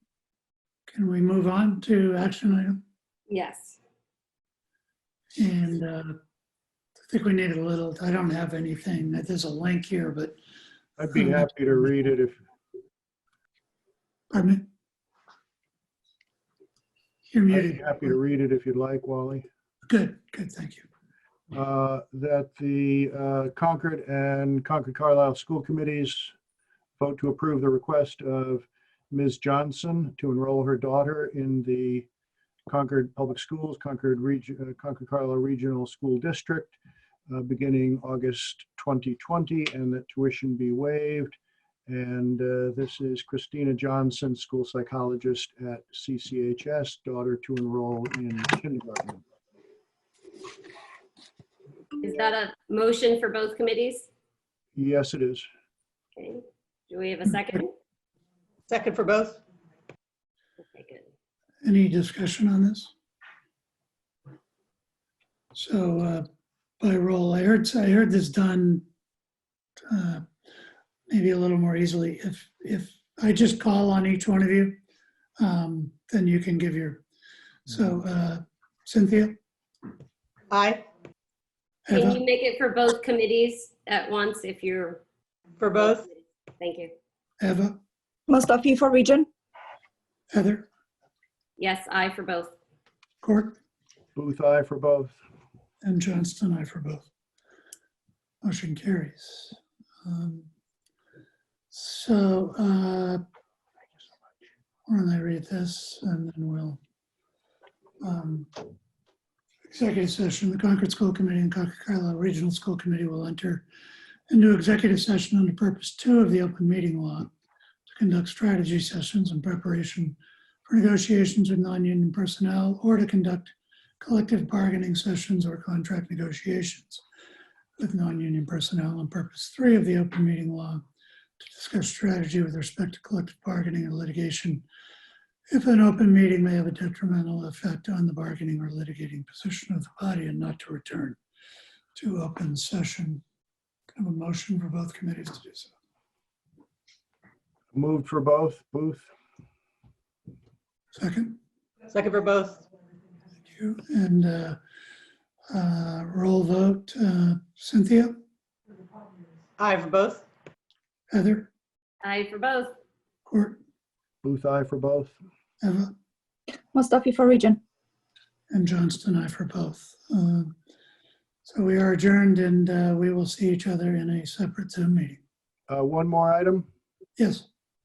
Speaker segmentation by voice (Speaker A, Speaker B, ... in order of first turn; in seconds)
Speaker A: 0.9-2.8, 5.4-6.2, 7.1-10.4, 11.1-11.5, 14.3-14.7, 17.3-18.2, 19.9-20.9, 61.6-62.9, 65.5-66.2, 66.8-68.8, 69.9-70.3, 71.1-74.8, 75.4-77.0, 77.7-79.4, 81.9-82.2, 87.4-87.8, 90.3-90.7, 93.2-93.6, 95.8-97.1, 98.4-100.5, 101.7-103.2, 104.9-106.8, 108.0-108.6, 109.7-113.7, 114.3-117.3, 117.9-127.0, 127.8-130.8, 131.4-134.6, 135.5-141.2, 142.0-143.2, 143.9-145.7, 151.0-151.3, 153.5-154.6, 155.5-158.2, 161.1-161.5, 163.3-163.6, 165.6-165.9, 168.5-170.6, 171.4-175.2, 177.2-177.5
Speaker B: 3.3-3.8, 52.0-54.1, 56.2-57.7, 60.6-61.1, 81.9-85.0, 85.8-86.9, 91.6-92.5, 162.0-162.7
Speaker C: 11.0-12.4, 17.5-19.5, 21.5-26.3, 27.0-32.1, 32.7-36.8, 37.3-41.4, 41.9-49.2, 54.8-55.5, 94.2-95.2, 147.7-149.1, 164.2-165.2, 175.7-176.7
Speaker D: 58.7-59.4, 80.5-80.8, 85.6-86.1, 151.9-152.6, 159.6-160.2
Speaker E: 88.3-89.3, 166.7-167.6